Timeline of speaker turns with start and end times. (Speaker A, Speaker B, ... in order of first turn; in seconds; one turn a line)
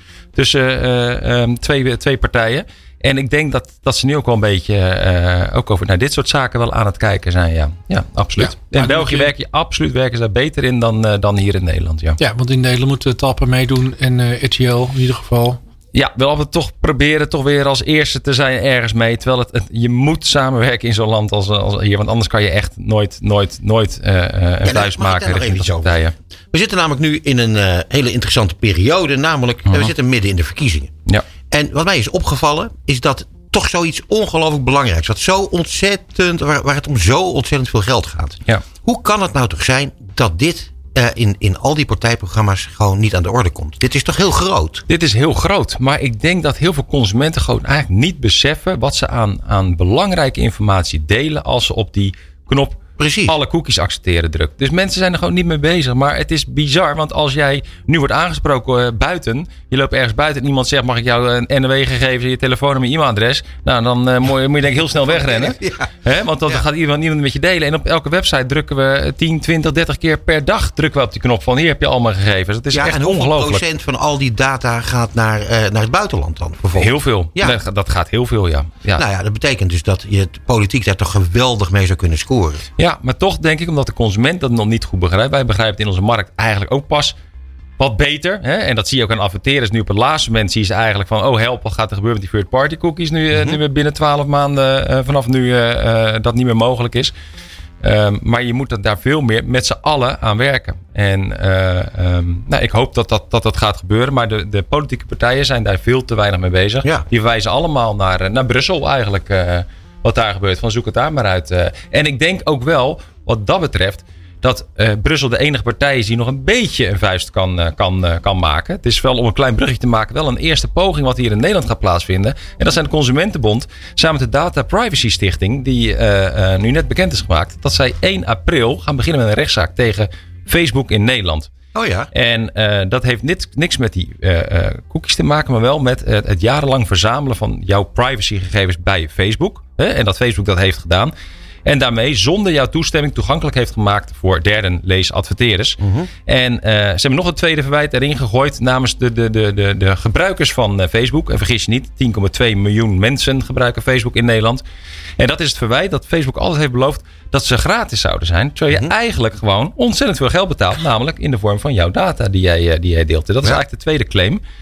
Speaker A: 0.3-12.2
Speaker B: 8.4-9.3
Speaker B: 12.2-15.6
Speaker A: 15.9-26.1
Speaker C: 24.6-30.9
Speaker C: 31.5-44.8
Speaker A: 44.9-73.6
Speaker C: 53.0-53.3
Speaker C: 64.9-65.9
Speaker C: 72.7-77.6
Speaker A: 76.7-79.0
Speaker C: 78.9-82.7
Speaker A: 82.8-87.2
Speaker A: 87.8-97.1
Speaker C: 93.3-93.6
Speaker A: 97.8-131.5
Speaker C: 131.7-132.1
Speaker A: 132.1-141.1
Speaker A: 141.6-154.6
Speaker C: 145.8-146.1
Speaker A: 155.2-164.4